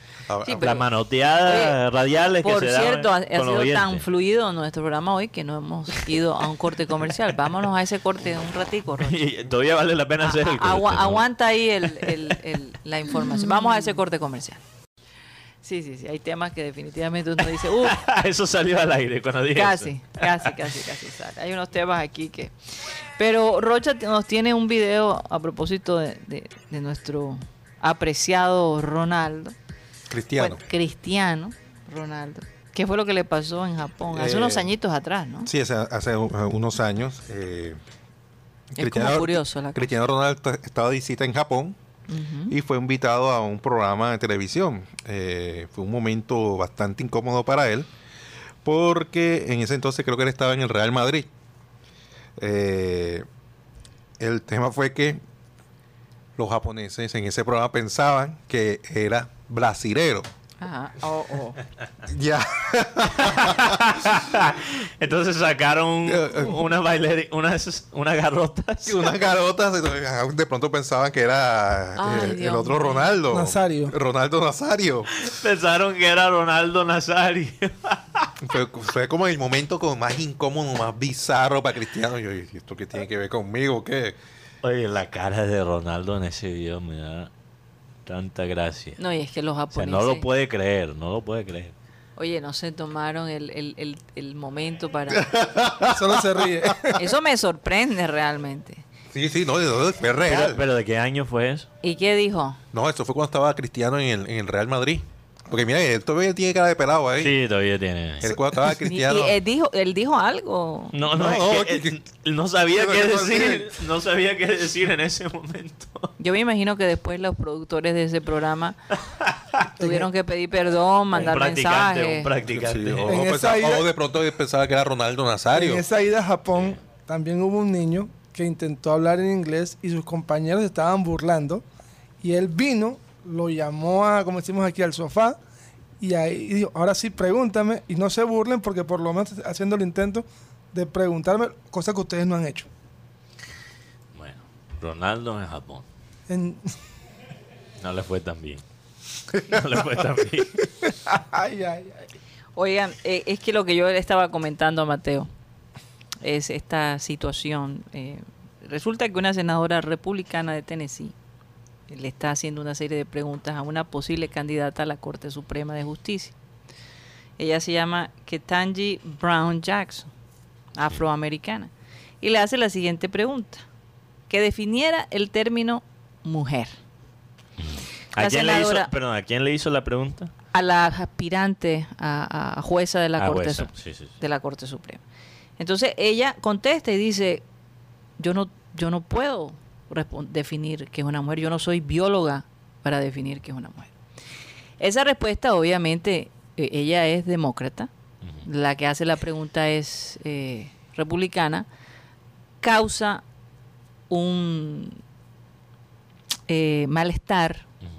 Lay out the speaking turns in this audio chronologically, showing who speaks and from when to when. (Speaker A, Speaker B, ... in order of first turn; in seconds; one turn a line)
Speaker A: 0.3-0.8
Speaker B: 0.4-0.8
Speaker C: 0.6-4.0
Speaker B: 1.4-1.8
Speaker B: 2.4-9.2
Speaker C: 9.0-11.3
Speaker B: 10.2-14.6
Speaker C: 11.8-12.4
Speaker B: 15.6-18.0
Speaker C: 17.6-20.5
Speaker B: 19.5-29.6
Speaker A: 30.1-30.6
Speaker B: 30.4-35.5
Speaker A: 34.1-34.8
Speaker A: 35.5-37.8
Speaker A: 38.8-41.8
Speaker B: 38.8-39.9
Speaker B: 42.1-42.5
Speaker A: 42.5-47.9
Speaker A: 48.6-51.3
Speaker A: 52.4-53.3
Speaker A: 54.2-55.2
Speaker A: 56.4-60.3
Speaker B: 60.6-61.6
Speaker A: 62.0-64.2
Speaker C: 63.2-69.1
Speaker A: 66.0-66.6
Speaker A: 68.8-75.1
Speaker B: 72.0-73.2
Speaker D: 73.3-74.0
Speaker C: 75.2-78.3
Speaker A: 78.4-84.2
Speaker C: 84.6-87.3
Speaker C: 88.1-89.0
Speaker B: 89.0-90.3
Speaker C: 89.7-91.7
Speaker B: 92.2-95.3
Speaker A: 95.1-96.9
Speaker D: 95.8-97.0
Speaker B: 97.0-98.8
Speaker A: 99.1-100.6
Speaker C: 100.3-101.7
Speaker B: 101.8-102.6
Speaker A: 102.7-107.4
Speaker C: 107.2-108.3
Speaker A: 108.2-109.4
Speaker B: 108.8-111.0
Speaker C: 110.9-116.1
Speaker A: 111.1-112.0
Speaker A: 112.7-113.7
Speaker B: 116.2-118.8
Speaker C: 119.2-119.7
Speaker B: 119.8-122.3
Speaker D: 119.8-120.1
Speaker C: 121.1-123.2
Speaker A: 122.5-125.9
Speaker D: 123.1-123.9
Speaker D: 125.5-131.7
Speaker D: 132.2-135.4
Speaker D: 136.0-142.7
Speaker C: 144.1-145.8
Speaker D: 146.3-146.7
Speaker C: 147.8-148.6
Speaker C: 149.3-150.7
Speaker D: 150.9-152.0
Speaker B: 152.6-155.3
Speaker B: 156.2-161.2
Speaker B: 161.9-166.3
Speaker B: 167.4-170.1
Speaker B: 170.8-173.6
Speaker B: 174.3-176.8
Speaker C: 177.6-180.3
Speaker B: 178.2-178.9
Speaker B: 180.5-185.0
Speaker C: 183.2-184.1
Speaker B: 185.6-187.4
Speaker B: 188.2-193.9
Speaker B: 194.8-197.9
Speaker B: 198.4-201.7
Speaker B: 202.6-203.2
Speaker B: 204.1-205.0
Speaker B: 206.5-207.7